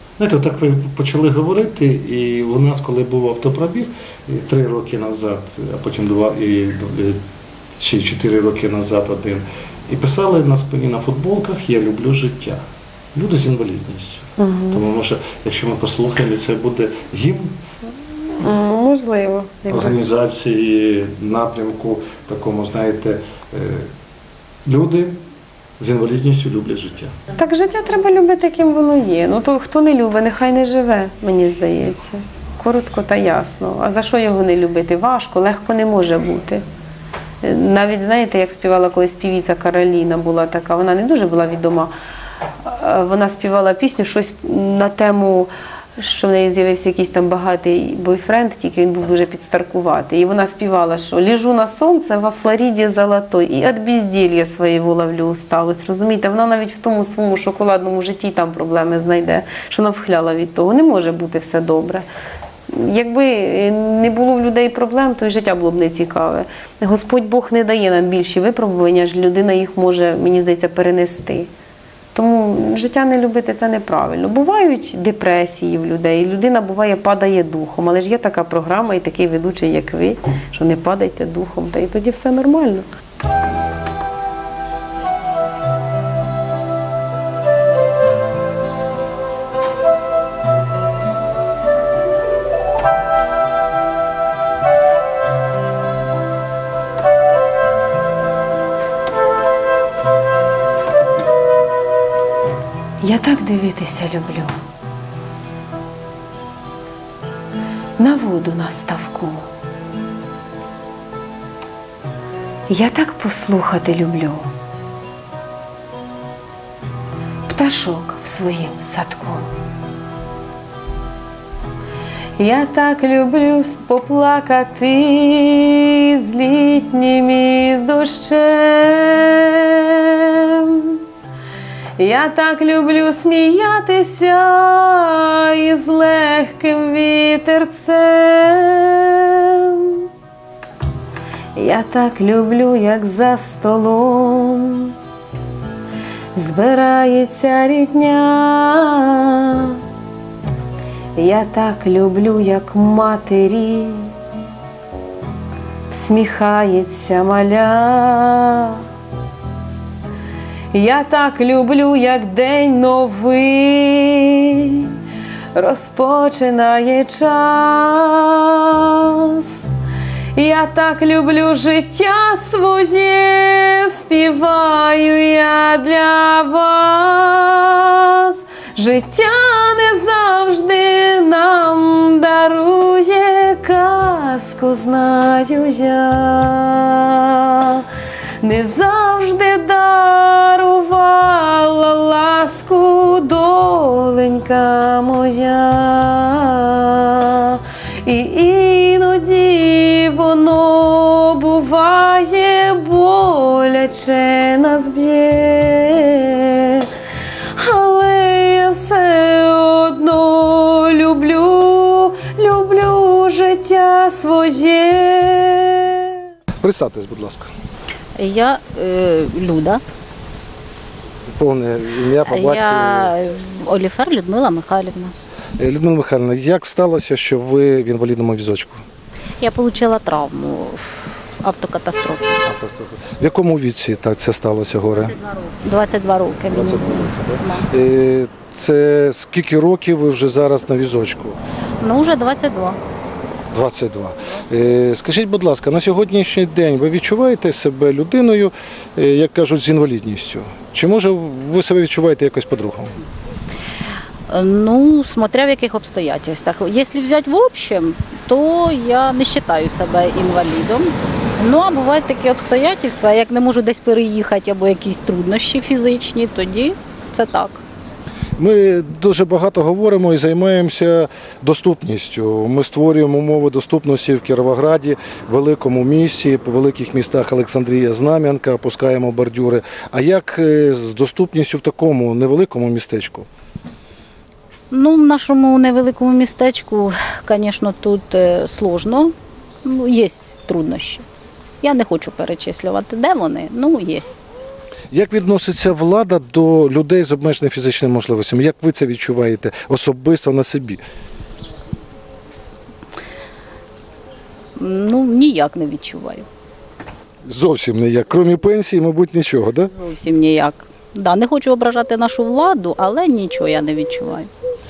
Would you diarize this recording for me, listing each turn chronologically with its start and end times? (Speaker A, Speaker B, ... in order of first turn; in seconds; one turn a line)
Speaker A: 0.2-7.2
Speaker A: 7.8-12.6
Speaker A: 13.1-17.6
Speaker B: 14.4-14.8
Speaker B: 18.4-20.0
Speaker A: 19.7-23.9
Speaker A: 24.6-25.1
Speaker A: 25.8-27.1
Speaker B: 27.4-36.6
Speaker B: 37.4-41.9
Speaker B: 42.6-62.0
Speaker B: 62.7-71.5
Speaker B: 72.1-82.8
Speaker B: 103.0-104.6
Speaker B: 108.0-109.4
Speaker B: 112.7-114.4
Speaker B: 117.5-119.5
Speaker B: 122.4-131.0
Speaker B: 132.0-140.1
Speaker B: 141.5-144.9
Speaker B: 146.3-149.8
Speaker B: 151.2-154.1
Speaker B: 155.9-158.8
Speaker B: 160.7-164.9
Speaker B: 165.5-169.6
Speaker B: 170.3-187.8
Speaker B: 188.4-206.9
Speaker B: 207.6-216.2
Speaker A: 216.6-217.5
Speaker C: 218.2-219.8
Speaker A: 221.3-223.1
Speaker C: 222.2-225.1
Speaker A: 225.6-228.8
Speaker C: 229.4-232.4
Speaker A: 232.4-235.2
Speaker C: 235.2-237.7
Speaker A: 236.5-241.4
Speaker C: 241.8-242.8
Speaker A: 243.5-252.9
Speaker C: 254.3-267.6
Speaker A: 268.4-283.3
Speaker C: 284.7-291.0
Speaker C: 291.6-294.2
Speaker A: 294.9-300.8
Speaker C: 304.6-306.2
Speaker A: 307.2-309.7
Speaker C: 309.7-314.3